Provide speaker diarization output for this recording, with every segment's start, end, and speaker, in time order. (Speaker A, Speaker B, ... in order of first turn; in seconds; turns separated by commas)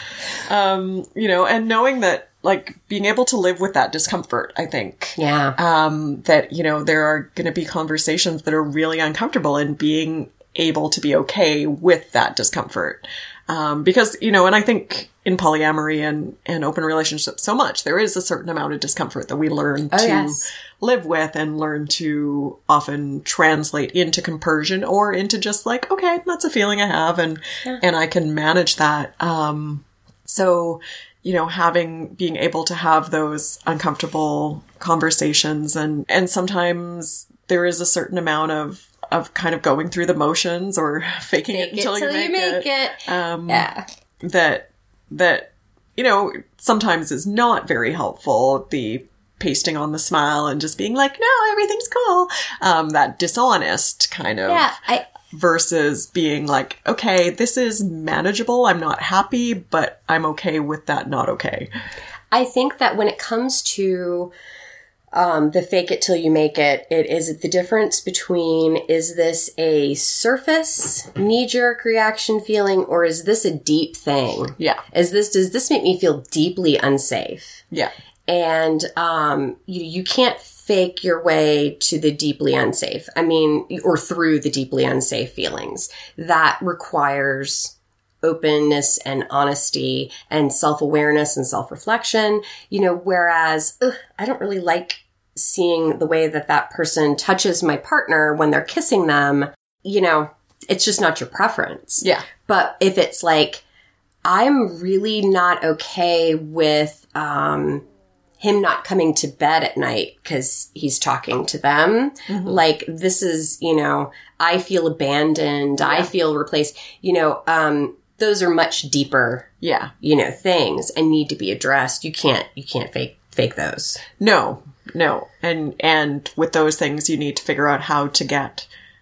Speaker A: 0.4-43.7, Speaker B: 5.2-5.6, Speaker B: 19.9-20.4, Speaker B: 41.5-43.8, Speaker A: 44.2-54.7, Speaker B: 54.5-55.1, Speaker A: 55.3-61.7, Speaker B: 62.3-64.3, Speaker B: 65.1-77.6, Speaker B: 78.3-103.6, Speaker B: 104.2-107.8, Speaker B: 108.4-119.5, Speaker A: 112.3-112.6, Speaker A: 115.8-116.1, Speaker A: 119.6-119.9, Speaker B: 120.0-124.0, Speaker A: 124.2-128.7